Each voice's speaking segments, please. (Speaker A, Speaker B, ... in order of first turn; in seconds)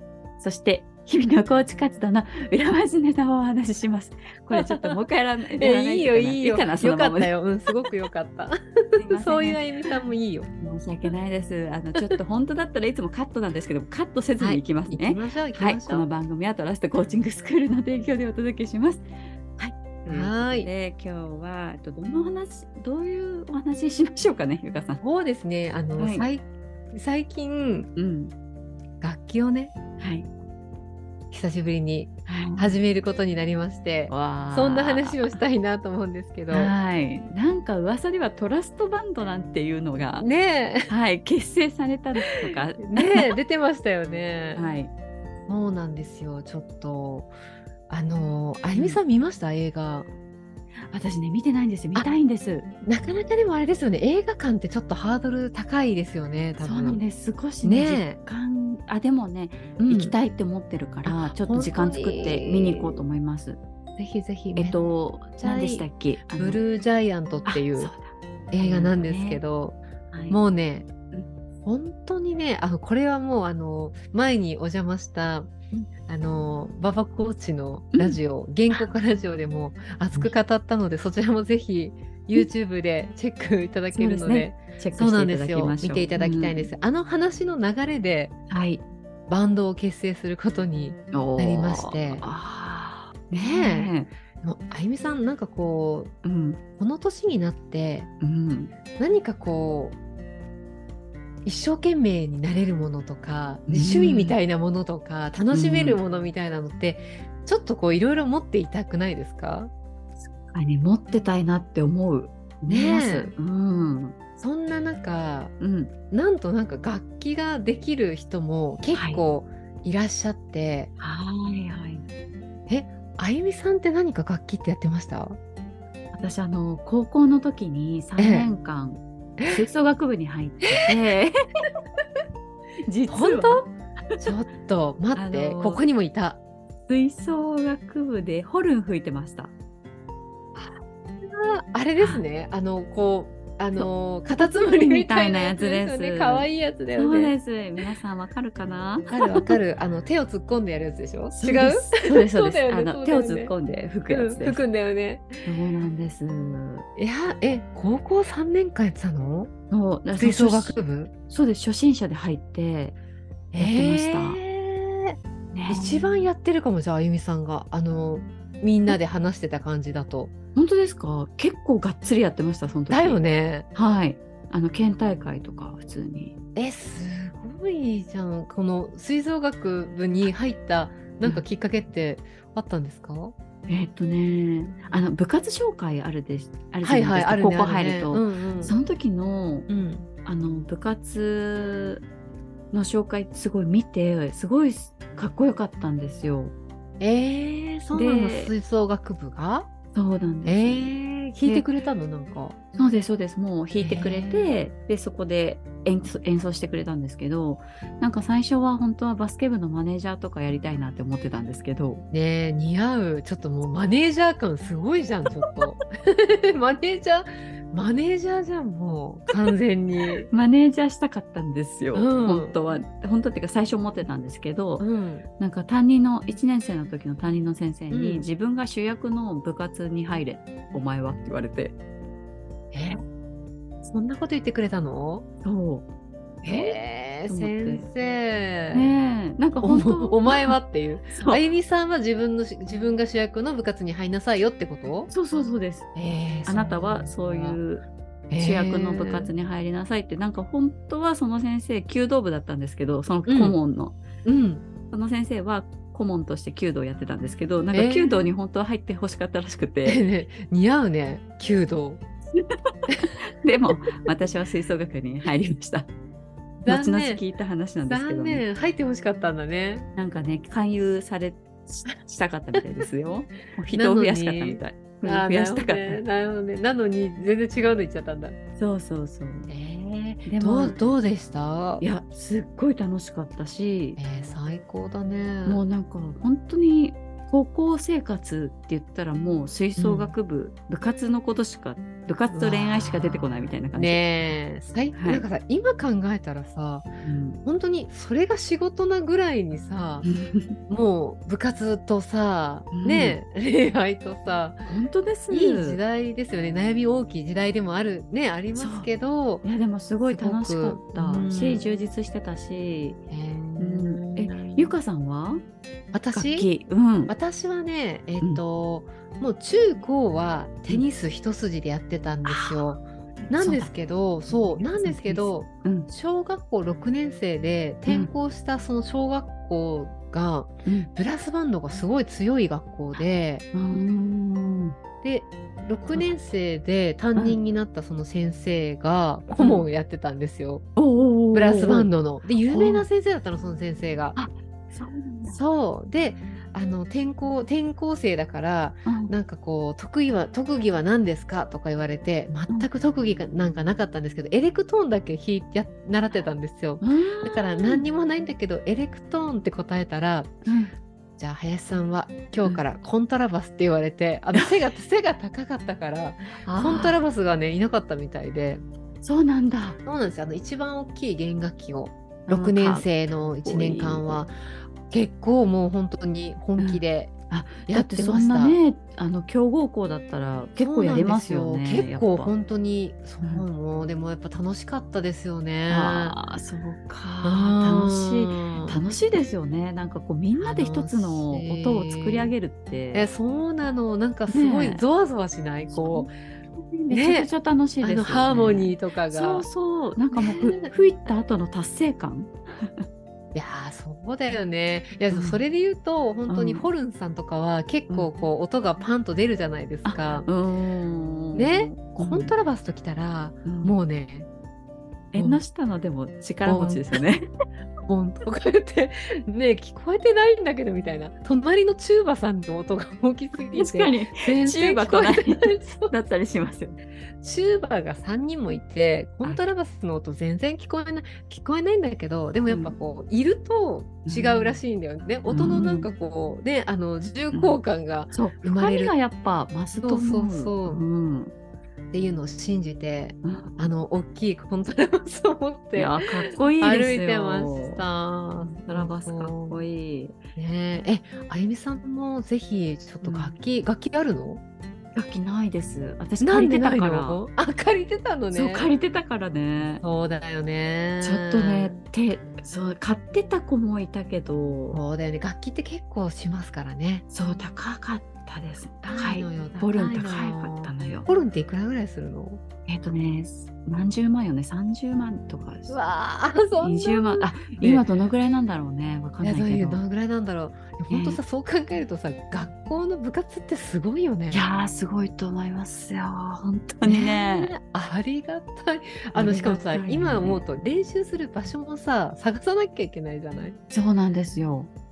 Speaker A: 0.4-7.3, 9.0-9.9, 10.6-19.1, 19.6-25.0, 26.0-26.3, 28.0-28.3, 30.0-30.3, 32.3-32.8, 34.1-35.4, 36.5-40.3, 40.9-43.3, 44.5-44.9, 48.7-49.0, 50.9-52.7, 56.6-63.6, 64.6-66.6, 67.5-69.4, 70.1-70.4, 77.9-78.2, 83.9-86.7, 88.5-88.8, 91.1-94.1, 96.2-96.6, 98.2-98.7, 103.7-104.4, 105.5-106.0, 110.2-114.2, 115.6-115.9, 118.9-119.2, 121.0-122.0, 126.1-131.3, 132.9-134.2, 135.2-135.8, 136.9-139.5, 142.0-142.2, 143.8-149.4, 151.4-154.6, 155.4-156.8, 159.7-162.9, 163.6-164.4, 165.5-166.3, 170.6-173.2, 173.7-176.3, 183.7-189.7, 190.2-192.0, 192.7-196.5, 197.9-198.5, 199.9-201.7, 202.8-212.0, 220.3-224.8, 225.4-231.8, 235.4-235.9, 236.4-237.9, 238.7-240.6, 241.1-241.4, 245.1-245.9, 246.5-247.9, 248.4-254.0, 254.9-260.0, 263.4-265.9, 266.6-268.4, 269.9-276.0, 278.6-279.5, 280.3-280.8, 281.8-284.0, 285.4-294.4, 294.9-295.2, 297.0-297.4, 300.0-300.6, 302.7-303.2, 304.7-305.8, 308.6-308.9, 309.4-313.0, 313.6-315.4, 316.1-317.1, 322.2-323.7, 324.3-325.9, 332.9-334.8, 335.9-336.2, 339.3-339.7, 340.8-341.9, 342.4-342.9, 344.2-345.4, 348.9-349.1, 356.1-357.9, 360.4-360.7, 366.5-367.0, 369.0-369.8, 372.3-372.9, 373.4-374.2, 376.6-382.3, 385.7-393.1, 394.3-394.8, 395.7-402.8, 405.1-405.4, 406.3-406.7, 409.9-412.3, 413.4-413.8, 415.1-417.3, 423.5-426.8, 432.5-432.8, 434.1-434.6, 435.3-435.9, 437.3-437.6, 438.1-441.3, 443.2-443.7, 445.8-447.9, 448.4-450.2, 453.0-453.4, 454.9-457.2, 458.3-459.8, 461.0-464.8, 467.1-471.1, 472.7-475.8, 476.6-479.8, 480.9-481.2, 484.3-487.5, 489.1-490.4, 493.7-494.7
Speaker B: 4.5-5.0, 5.6-8.6, 9.1-10.5, 14.4-16.1, 20.1-20.7, 25.0-27.9, 29.0-29.7, 31.3-36.7, 40.2-40.9, 42.8-44.6, 45.5-47.3, 47.9-50.1, 52.8-57.0, 57.6-58.2, 59.9-60.2, 61.0-63.0, 64.0-64.8, 65.4-67.9, 68.5-70.9, 71.7-75.5, 76.1-88.3, 89.3-92.3, 93.3-96.1, 96.8-98.1, 99.0-100.0, 101.5-109.7, 112.7-113.3, 114.4-115.5, 116.1-120.9, 122.7-125.4, 128.2-128.5, 129.4-129.6, 133.1-133.7, 134.2-136.4, 140.6-147.3, 149.1-153.5, 154.1-155.5, 157.0-159.5, 160.2-161.1, 163.5-165.2, 165.7-170.3, 172.9-173.7, 176.6-183.3, 186.8-188.8, 189.7-190.1, 197.0-199.7, 200.4-202.6, 203.8-204.5, 212.1-220.3, 221.9-222.6, 224.8-225.2, 227.9-228.3, 232.7-233.0, 233.8-235.2, 236.4-238.9, 239.6-245.1, 245.9-247.6, 248.3-249.3, 253.3-253.6, 254.2-254.6, 257.7-258.3, 259.9-262.0, 266.7-267.2, 267.9-269.9, 273.7-278.4, 279.5-281.8, 284.0-285.6, 289.8-290.1, 292.2-296.9, 297.4-300.1, 300.7-304.6, 305.3-309.5, 310.1-311.7, 313.1-314.8, 315.9-316.5, 317.1-333.5, 335.0-340.7, 341.3-344.2, 345.3-360.3, 361.2-368.6, 369.8-377.1, 377.7-378.6, 380.6-386.2, 387.2-388.8, 390.4-392.4, 392.9-396.2, 396.9-397.3, 397.8-399.5, 400.1-400.7, 403.3-410.3, 411.3-414.3, 415.1-415.4, 416.4-417.0, 417.9-425.9, 427.2-438.9, 439.8-440.8, 441.9-449.6, 450.4-454.4, 456.2-458.7, 459.8-461.8, 464.7-467.1, 468.8-472.4, 475.7-477.9, 479.2-484.5, 486.8-493.6